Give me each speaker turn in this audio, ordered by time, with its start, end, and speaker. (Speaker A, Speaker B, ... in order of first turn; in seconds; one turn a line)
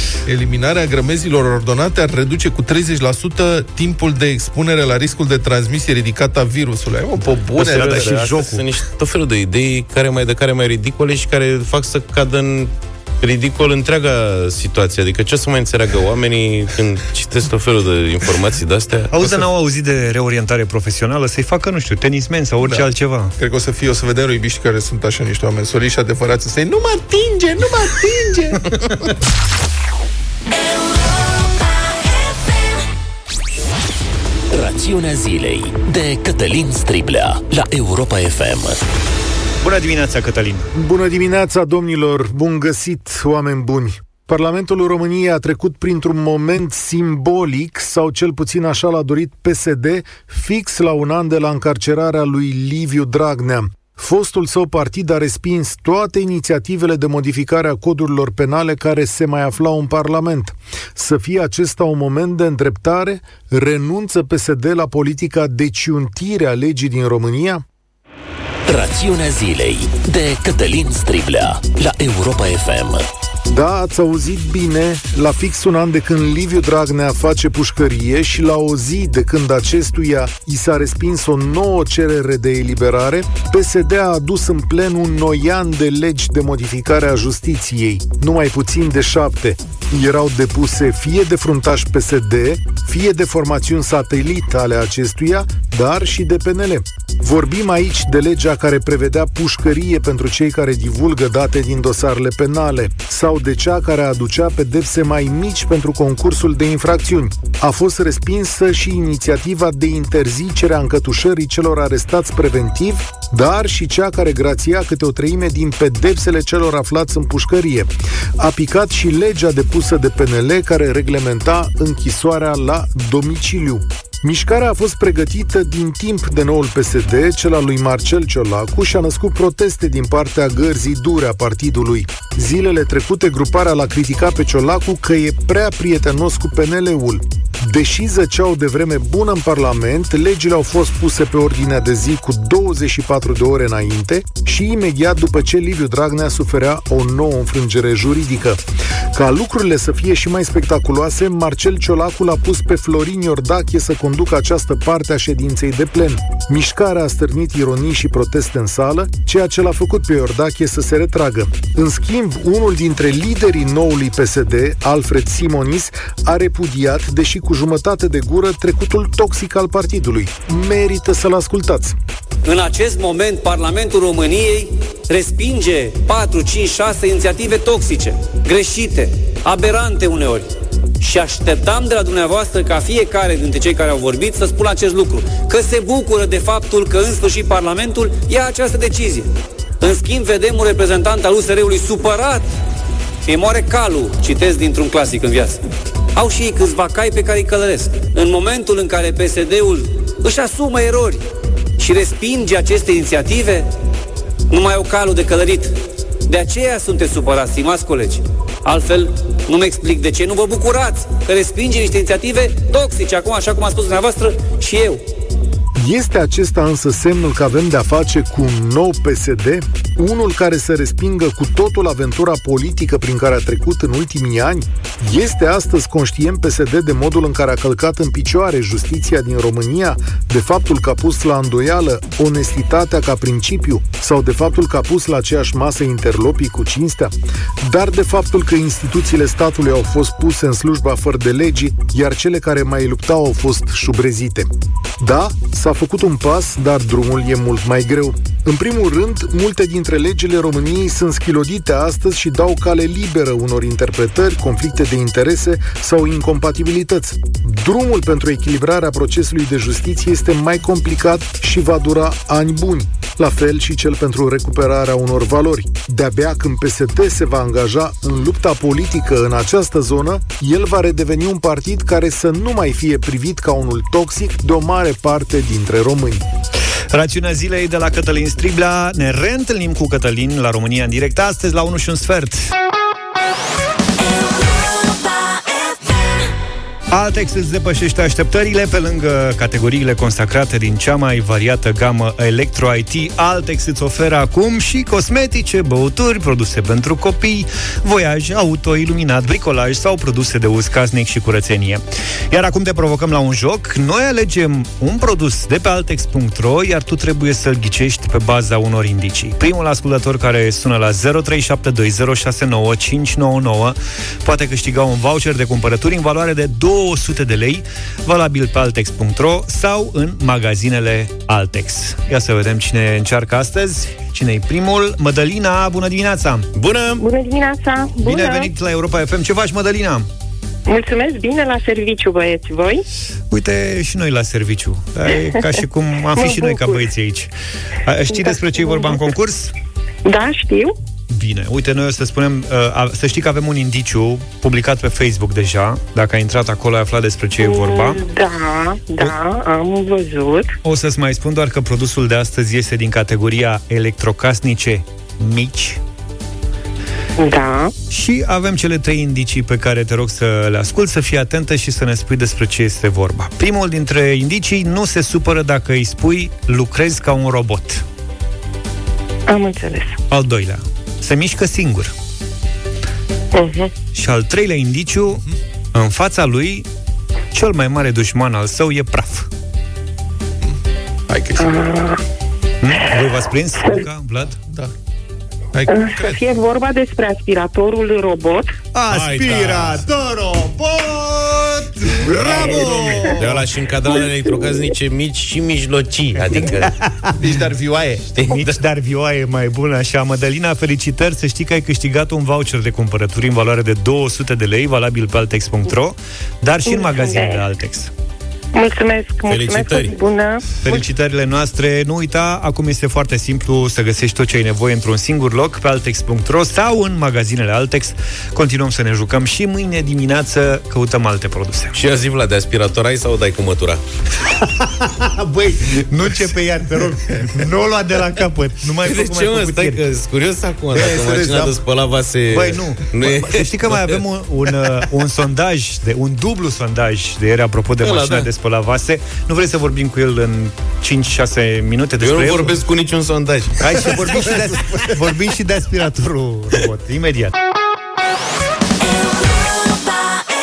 Speaker A: 0.2-8.4
Speaker B: 7.6-19.1
Speaker C: 7.7-8.6
Speaker C: 19.1-23.3
Speaker A: 23.4-29.1
Speaker D: 34.5-38.8
Speaker C: 39.6-40.7
Speaker E: 40.7-67.6
Speaker D: 68.7-73.0
Speaker E: 73.5-148.6
Speaker E: 149.1-171.9
Speaker F: 172.4-192.5
Speaker F: 193.2-195.6
Speaker F: 196.1-201.2
Speaker F: 201.8-203.7
Speaker F: 204.5-205.8
Speaker F: 206.3-215.0
Speaker E: 215.7-244.5
Speaker E: 245.0-276.2
Speaker C: 276.9-282.5
Speaker C: 286.9-326.5
Speaker B: 326.5-327.0
Speaker G: 327.0-328.5
Speaker C: 328.0-330.1
Speaker G: 330.7-332.8
Speaker C: 333.3-337.3
Speaker G: 336.1-336.8
Speaker C: 337.9-339.5
Speaker G: 338.1-339.0
Speaker G: 340.0-340.7
Speaker C: 341.1-348.0
Speaker G: 347.4-350.5
Speaker C: 350.6-355.8
Speaker G: 357.2-357.7
Speaker C: 357.9-367.8
Speaker G: 369.3-370.0
Speaker C: 370.1-371.9
Speaker G: 373.3-373.7
Speaker C: 373.9-375.2
Speaker C: 375.7-376.6
Speaker C: 377.3-379.3
Speaker A: 381.1-381.6
Speaker G: 381.4-381.9
Speaker C: 382.6-384.4
Speaker A: 384.5-384.7
Speaker A: 385.5-386.2
Speaker G: 385.7-388.5
Speaker C: 388.7-393.2
Speaker B: 388.9-389.8
Speaker A: 391.8-393.4
Speaker B: 392.2-396.7
Speaker C: 396.2-397.2
Speaker A: 397.2-398.1
Speaker B: 398.1-398.6
Speaker C: 398.2-407.9
Speaker G: 406.6-407.4
Speaker G: 408.5-410.8
Speaker B: 409.3-409.9
Speaker C: 410.6-421.7
Speaker B: 421.7-423.8
Speaker C: 424.3-429.8
Speaker B: 428.8-434.0
Speaker A: 430.7-431.5
Speaker C: 432.3-442.5
Speaker B: 437.8-438.3
Speaker B: 442.0-443.9
Speaker C: 443.6-447.3
Speaker A: 444.1-444.9